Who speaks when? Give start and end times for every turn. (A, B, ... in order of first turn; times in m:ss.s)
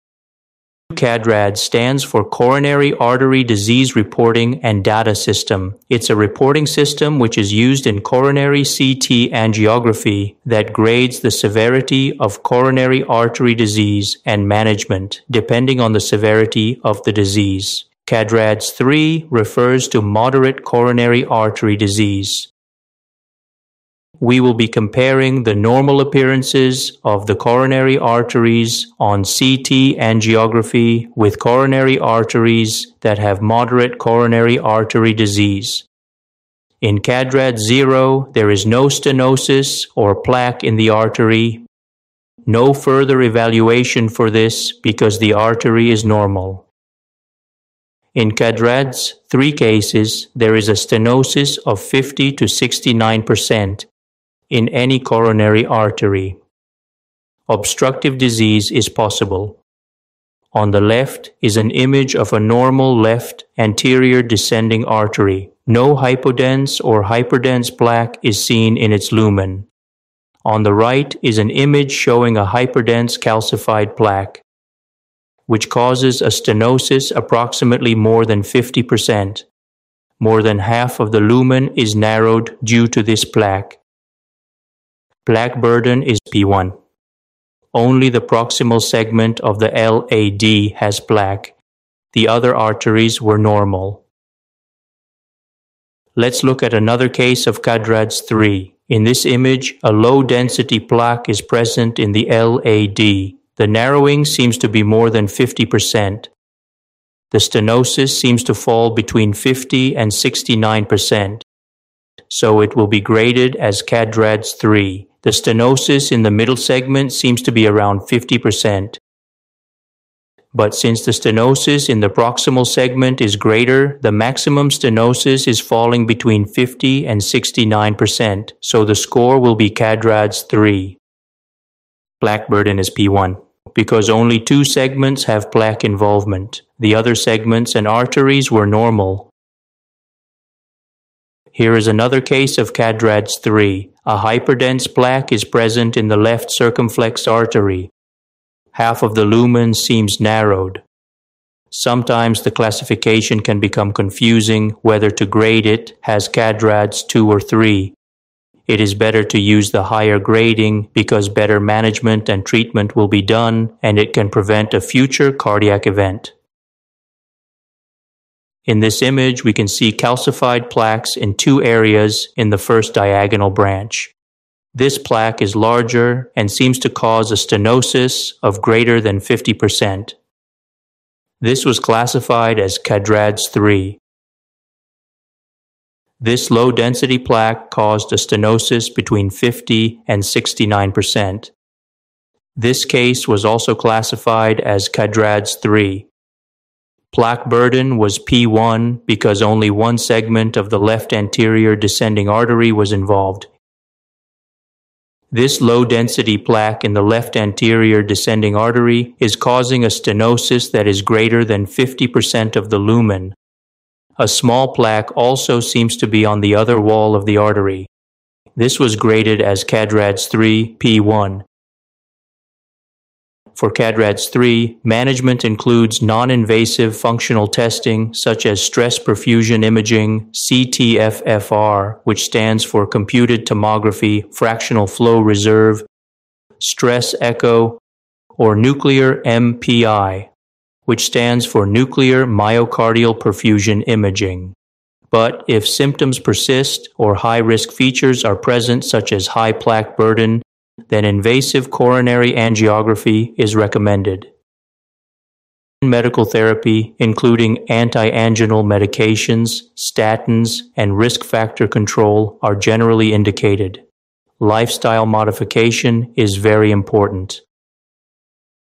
0:00.9-0:22.5 A
0:24.2-0:35.8 A
0:36.8-0:41.6 A
0:42.4-0:46.6 A
0:48.1-0:53.9 A
0:54.5-0:56.4 A
0:57.5-0:59.6 A
1:00.5-1:09.7 A
1:10.4-1:14.4 A
1:15.5-1:19.4 A
1:20.2-1:23.8 A
1:25.2-1:26.7 A
1:27.7-1:31.6 A
1:32.1-1:34.0 A
1:36.2-1:46.3 A
1:47.3-1:51.4 A
1:52.3-1:59.0 A
2:00.5-2:11.0 A
2:12.2-2:19.3 A
2:21.5-2:27.9 A
2:28.7-2:30.8 A
2:31.7-2:37.9 A
2:38.7-2:46.3 A
2:48.6-2:54.1 A
2:54.7-3:00.2 A
3:01.4-3:04.0 A
3:06.2-3:11.5 A
3:12.6-3:16.1 A
3:17.1-3:23.5 A
3:25.3-3:33.4 A
3:34.2-3:37.9 A
3:38.6-3:41.4 A
3:43.5-3:55.8 A
3:56.6-3:57.8 A
3:58.4-4:00.3 A
4:00.8-4:04.5 A
4:05.1-4:14.3 A
4:15.8-4:23.8 A
4:24.4-4:27.4 A